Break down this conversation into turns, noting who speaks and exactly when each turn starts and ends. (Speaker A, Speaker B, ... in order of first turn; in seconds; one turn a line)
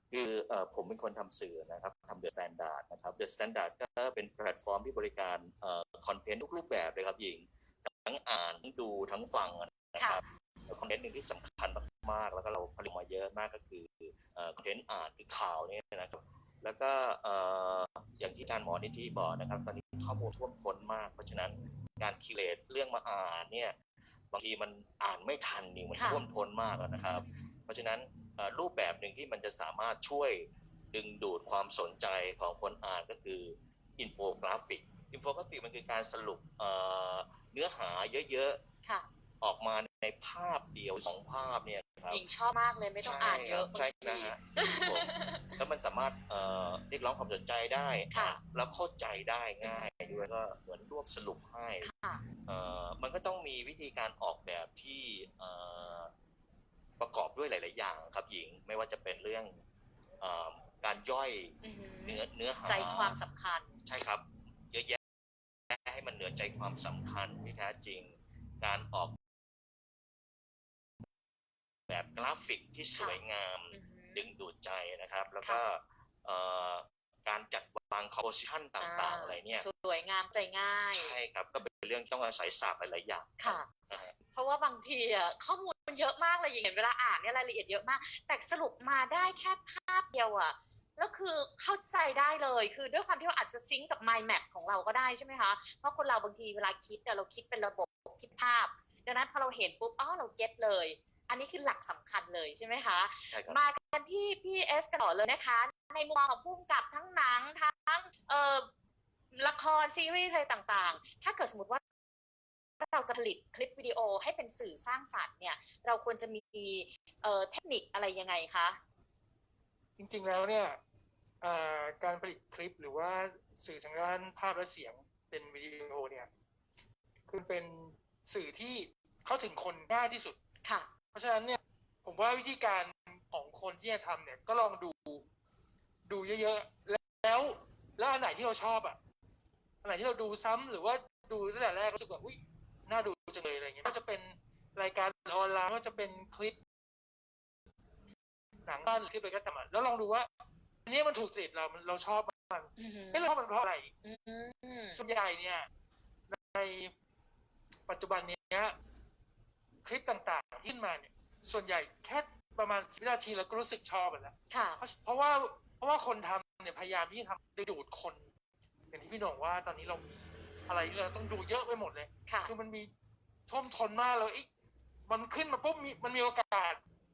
Speaker A: 0.1-23.8
Speaker A: 24.3-38.6
Speaker B: 25.9-26.2
Speaker B: 27.1-27.5
Speaker A: 39.4-42.2
Speaker B: 42.1-45.6
Speaker A: 43.0-51.9
Speaker B: 48.1-48.4
Speaker B: 49.6-50.2
Speaker B: 51.8-52.2
Speaker A: 52.5-56.1
Speaker A: 57.0-59.5
Speaker A: 60.2-63.2
Speaker B: 61.6-63.7
Speaker A: 63.8-65.0
Speaker A: 65.7-69.2
Speaker A: 71.9-79.7
Speaker B: 73.7-74.2
Speaker B: 78.8-81.2
Speaker A: 80.9-84.1
Speaker B: 83.4-83.7
Speaker B: 84.3-108.7
Speaker A: 103.3-103.6
Speaker B: 109.3-111.8
Speaker B: 112.8-118.8
Speaker C: 120.0-120.8
Speaker C: 121.4-126.3
Speaker C: 127.3-130.4
Speaker B: 130.6-130.9
Speaker C: 131.1-135.2
Speaker C: 136.1-139.0
Speaker C: 139.8-146.6
Speaker C: 148.7-150.3
Speaker C: 150.8-153.9
Speaker B: 152.8-153.3
Speaker B: 154.0-155.0
Speaker C: 154.9-155.7
Speaker C: 156.3-156.9
Speaker C: 157.9-158.7
Speaker C: 159.8-168.3
Speaker B: 164.5-164.8
Speaker C: 168.9-172.9
Speaker C: 173.5-174.5
Speaker C: 175.1-176.8